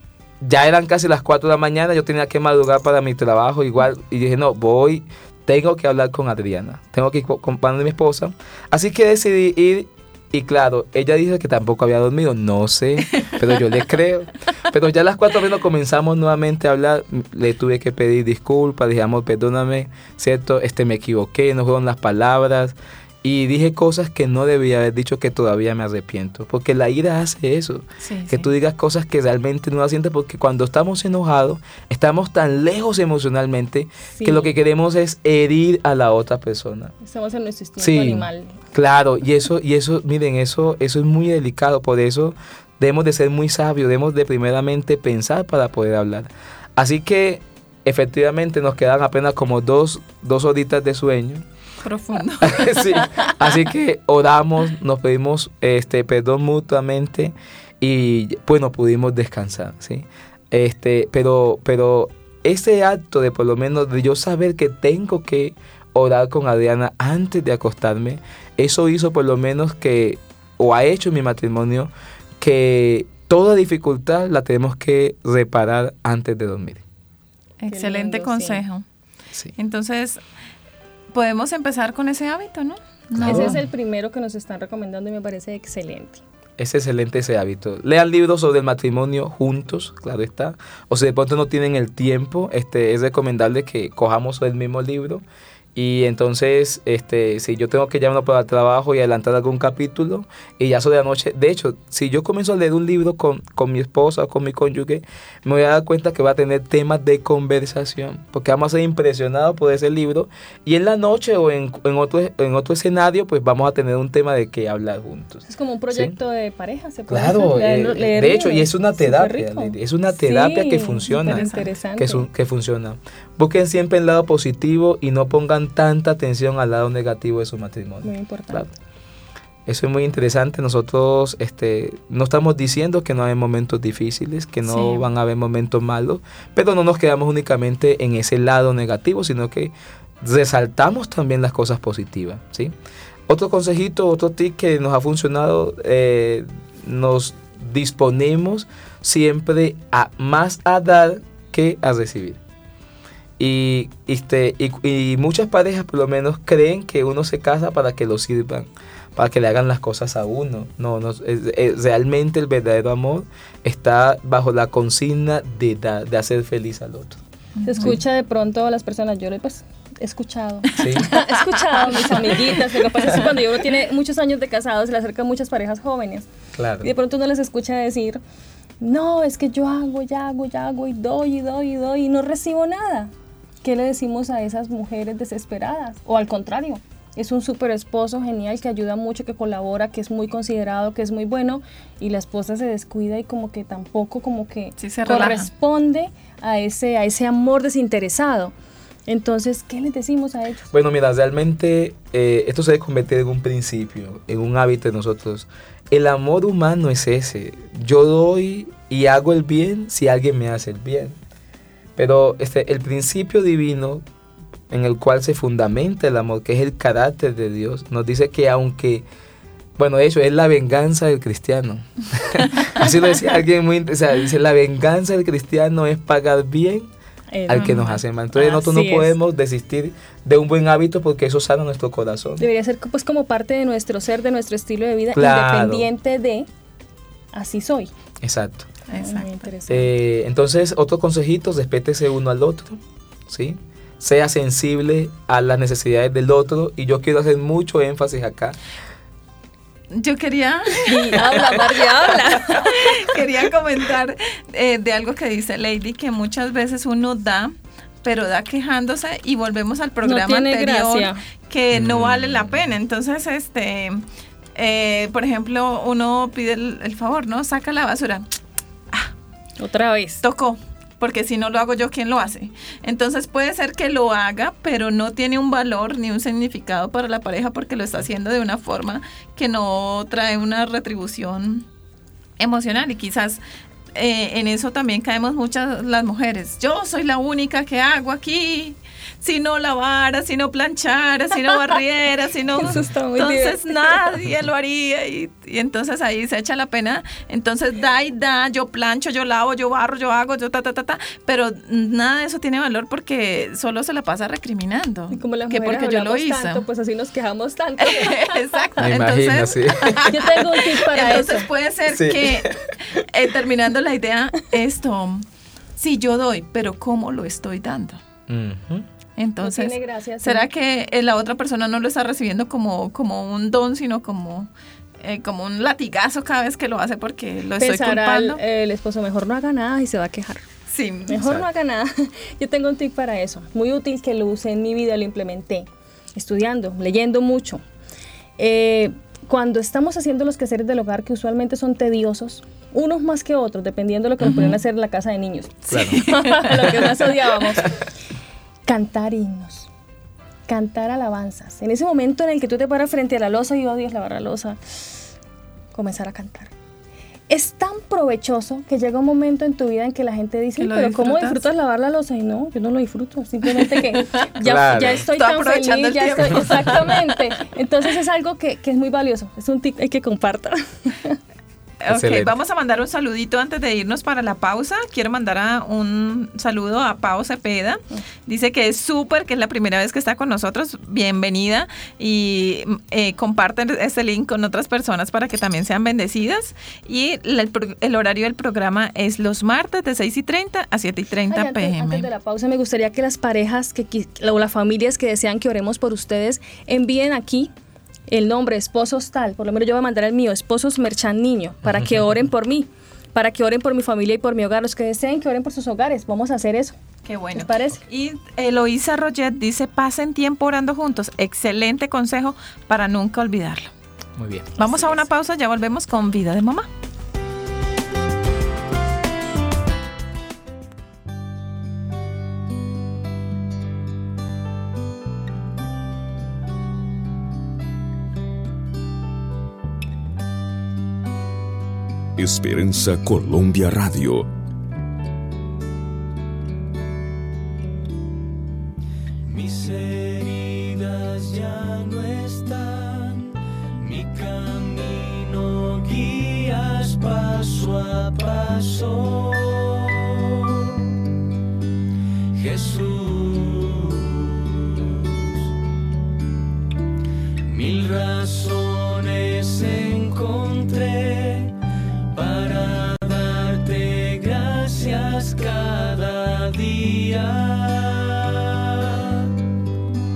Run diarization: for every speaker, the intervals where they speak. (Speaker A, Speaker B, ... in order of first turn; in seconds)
Speaker A: 0.4-36.9, 37.8-51.4, 52.4-76.8, 83.2-83.6, 86.6-95.2, 95.7-116.1, 117.1-121.4, 122.0-128.7, 129.7-142.7, 143.3-152.4, 153.4-167.2, 170.8-171.1, 176.5-176.9, 200.7-211.2, 212.0-214.0, 214.7-219.0, 219.8-226.9, 227.5-232.4, 235.1-235.9, 238.2-238.7, 239.7-248.6, 261.7-262.5, 308.8-310.1, 311.9-312.5, 318.3-318.9, 344.2-344.5, 345.7-346.0, 364.4-365.0, 371.9-372.3, 401.6-402.1, 414.2-415.0
Speaker B: 28.0-28.5, 51.8-53.3, 77.6-78.8, 79.5-80.2, 81.1-83.6, 121.2-121.7, 134.7-135.0, 167.6-168.0, 171.8-172.3, 194.8-195.5, 227.5-227.9, 238.9-239.5, 249.9-264.0, 264.5-268.3, 270.2-281.7, 282.4-283.4, 283.9-306.6, 307.8-315.2, 315.8-318.0, 319.2-324.5, 325.0-328.4, 330.7-331.3, 345.7-346.7, 360.6-361.4, 363.5-364.2, 365.2-367.2, 371.8-392.1, 407.0-413.7, 414.6-416.7
Speaker C: 34.1-34.5, 37.0-38.6, 77.7-78.6, 83.2-86.2, 115.5-122.3, 128.0-128.7, 167.7-176.3, 176.8-178.2, 178.8-183.1, 183.6-198.5, 199.1-200.6, 227.3-229.1, 232.4-236.5, 237.3-237.9, 239.0-239.9, 250.8-253.1, 260.0-261.2, 269.6-270.2, 292.6-294.0, 305.1-308.7, 310.0-311.5, 319.4-320.4, 327.6-330.4, 331.1-337.6, 338.4-347.7, 348.6-349.7, 350.5-354.9, 355.7-356.5, 357.3-371.2, 391.3-397.5, 398.1-406.8, 407.3-407.8
Speaker D: 432.2-434.3
Speaker E: 439.2-450.8, 452.3-455.4, 457.4-461.5, 462.1-469.3